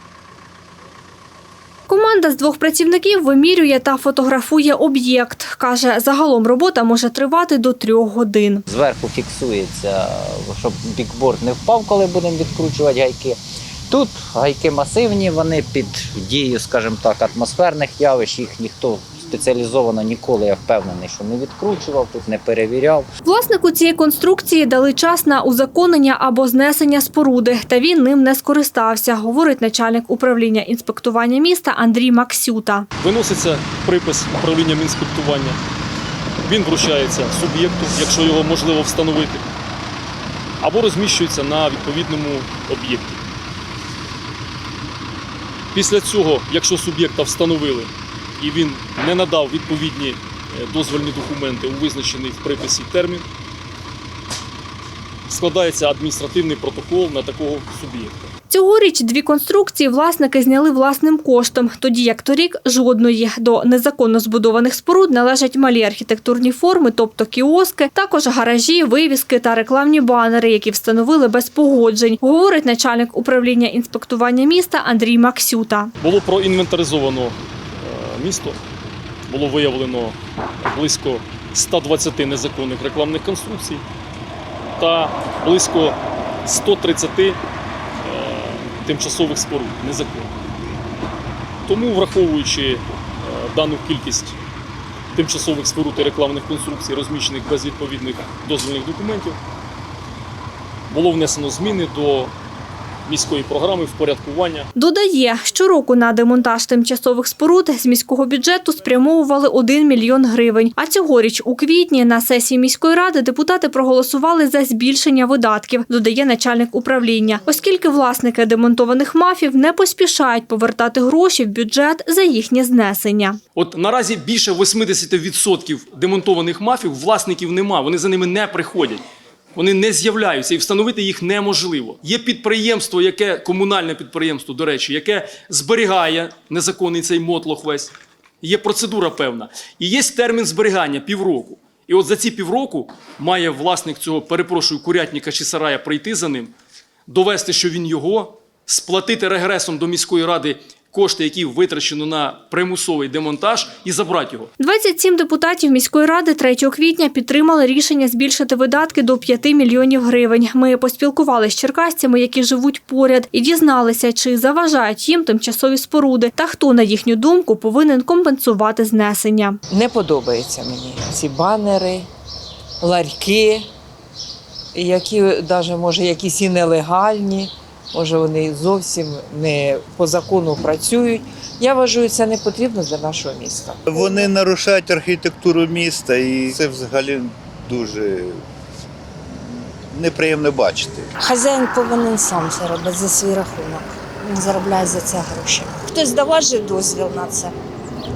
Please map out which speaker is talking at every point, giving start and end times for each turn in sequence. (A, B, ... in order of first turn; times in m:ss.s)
0:01.9-0:08.7 A
0:08.7-0:23.1 B
0:23.2-0:32.9 A
0:33.0-0:35.6 C
0:36.4-0:39.4 C
0:40.6-0:43.2 C
0:45.7-0:53.2 C
0:55.3-0:58.2 C
0:58.5-1:15.9 A
1:16.0-1:18.6 C
1:19.3-1:23.8 C
1:24.8-1:27.4 C
1:28.0-1:30.3 C
1:31.7-1:34.4 C
1:35.1-1:39.4 C
1:40.9-1:42.3 C
1:43.1-1:44.7 C
1:44.8-2:03.4 A
2:03.6-2:09.0 C
2:09.6-2:26.5 C
2:27.1-2:34.5 C
2:34.6-2:49.6 A
2:49.7-2:52.1 D
2:52.8-2:53.7 D
2:54.8-3:04.3 D
3:03.9-3:08.4 E
3:09.9-3:11.1 E
3:11.2-3:17.6 F